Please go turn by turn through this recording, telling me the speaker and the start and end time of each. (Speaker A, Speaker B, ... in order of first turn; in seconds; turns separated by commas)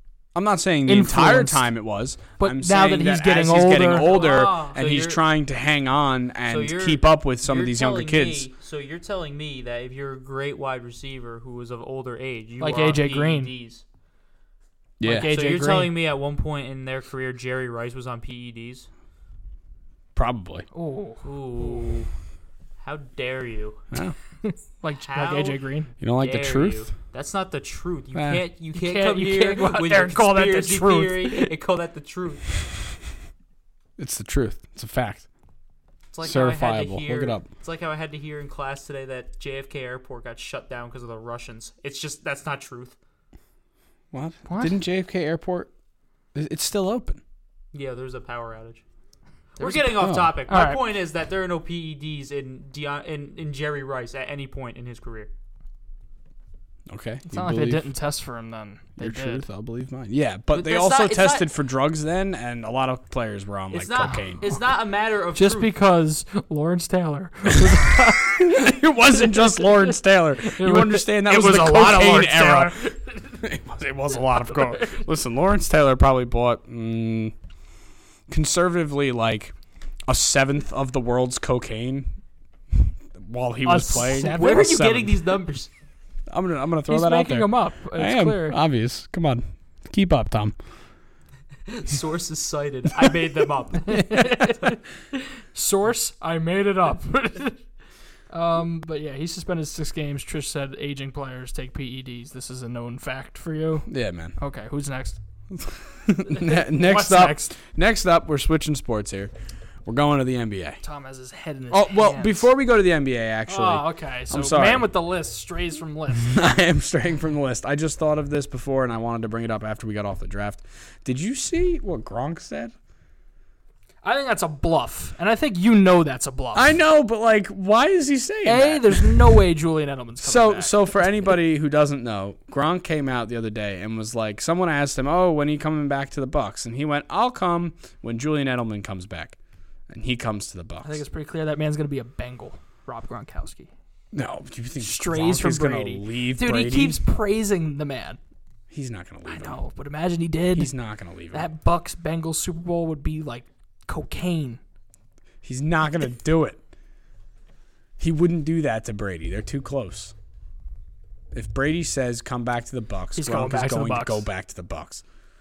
Speaker A: 0.3-8.5, Speaker B: 0.9-1.7, Speaker B: 2.4-4.2, Speaker C: 3.9-5.2, Speaker C: 6.5-13.8, Speaker B: 12.6-13.5, Speaker A: 15.0-15.3, Speaker B: 15.0-15.9, Speaker C: 15.3-18.9, Speaker A: 20.1-20.7, Speaker B: 20.7-21.8, Speaker C: 21.2-22.1, Speaker C: 22.8-23.8, Speaker B: 24.4-25.9, Speaker C: 25.1-25.6, Speaker A: 26.0-26.9, Speaker C: 26.2-32.5, Speaker A: 28.1-28.4, Speaker B: 28.7-31.5, Speaker A: 34.0-35.3, Speaker C: 36.1-43.0, Speaker A: 36.2-37.5, Speaker A: 44.1-45.7, Speaker B: 44.5-44.8, Speaker A: 46.3-47.2, Speaker C: 47.7-48.8, Speaker C: 49.6-55.3, Speaker B: 49.6-50.8, Speaker A: 50.0-50.4, Speaker A: 56.9-57.9, Speaker B: 57.3-59.5, Speaker A: 59.0-64.5, Speaker C: 60.5-61.5, Speaker C: 63.7-65.7, Speaker B: 65.3-73.1, Speaker A: 67.6-77.3, Speaker B: 74.7-75.0, Speaker A: 78.3-79.5, Speaker A: 80.1-82.1, Speaker A: 82.7-85.2, Speaker B: 83.7-84.8, Speaker C: 84.0-85.7, Speaker A: 86.3-90.6, Speaker B: 86.9-88.6, Speaker C: 91.7-94.5, Speaker B: 93.9-97.6, Speaker B: 98.3-105.2, Speaker A: 103.9-104.3, Speaker A: 105.5-109.3, Speaker B: 106.3-107.5, Speaker A: 109.8-110.8, Speaker B: 110.8-112.5, Speaker A: 111.7-114.9, Speaker B: 113.5-116.3, Speaker A: 116.2-122.7, Speaker B: 124.0-126.8, Speaker A: 126.5-129.2, Speaker B: 128.4-130.8, Speaker A: 130.2-139.4, Speaker A: 139.9-141.0, Speaker B: 140.8-143.7, Speaker A: 144.1-147.0, Speaker B: 144.8-148.2, Speaker A: 148.7-149.6, Speaker B: 149.3-150.7, Speaker A: 150.5-151.5, Speaker B: 151.3-154.6, Speaker A: 155.4-156.6, Speaker A: 158.0-160.1, Speaker A: 161.3-165.0, Speaker B: 163.2-164.2